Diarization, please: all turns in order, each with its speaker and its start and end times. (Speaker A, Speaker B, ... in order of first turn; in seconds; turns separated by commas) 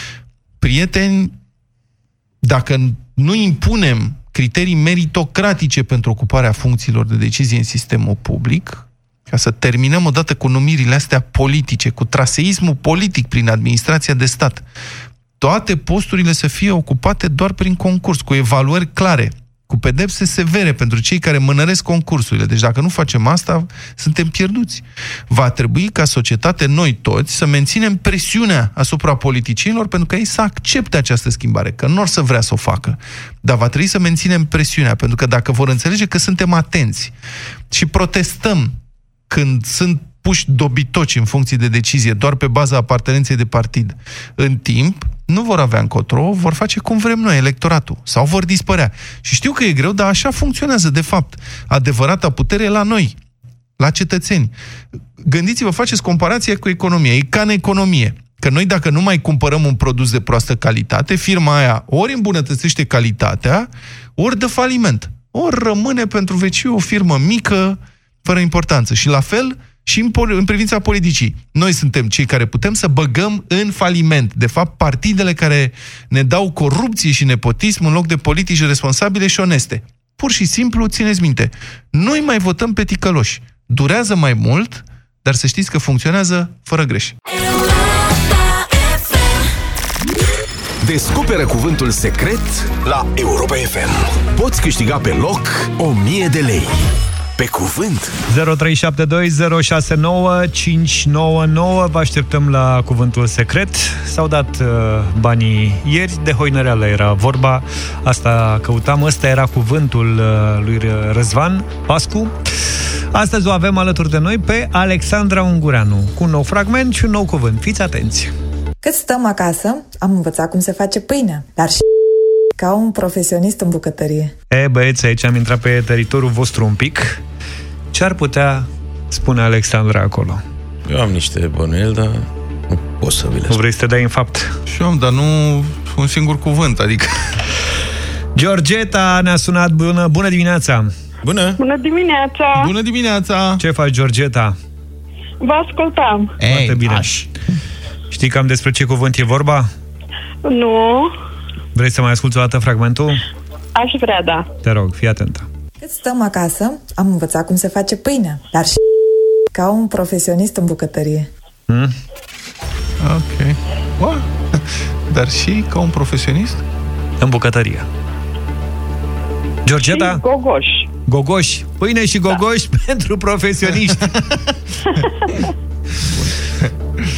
Speaker A: 0.6-1.3, Speaker A: 2.4-14.7, Speaker A: 15.4-37.1, Speaker A: 37.7-38.7, Speaker A: 39.3-53.1, Speaker A: 53.8-54.5, Speaker A: 55.2-87.1, Speaker B: 90.8-96.8, Speaker B: 97.4-98.1, Speaker C: 98.3-112.3, Speaker C: 113.1-118.3, Speaker D: 118.8-121.9, Speaker D: 122.5-124.3, Speaker C: 124.5-127.2, Speaker C: 127.9-130.4, Speaker E: 130.8-133.6, Speaker C: 133.5-134.6, Speaker A: 134.7-137.3, Speaker C: 138.3-140.9, Speaker E: 141.2-141.6, Speaker F: 141.6-142.7, Speaker A: 142.5-143.6, Speaker C: 143.6-144.6, Speaker F: 145.4-146.3, Speaker A: 146.4-147.1, Speaker C: 146.4-147.3, Speaker C: 148.1-149.7, Speaker F: 150.4-151.1, Speaker C: 151.7-153.2, Speaker F: 153.8-154.4, Speaker C: 154.6-155.4, Speaker D: 155.8-158.8, Speaker D: 159.5-161.3, Speaker A: 163.0-166.6, Speaker C: 167.2-167.8, Speaker C: 169.7-170.2, Speaker F: 169.9-170.9, Speaker C: 171.1-174.4, Speaker A: 176.1-176.7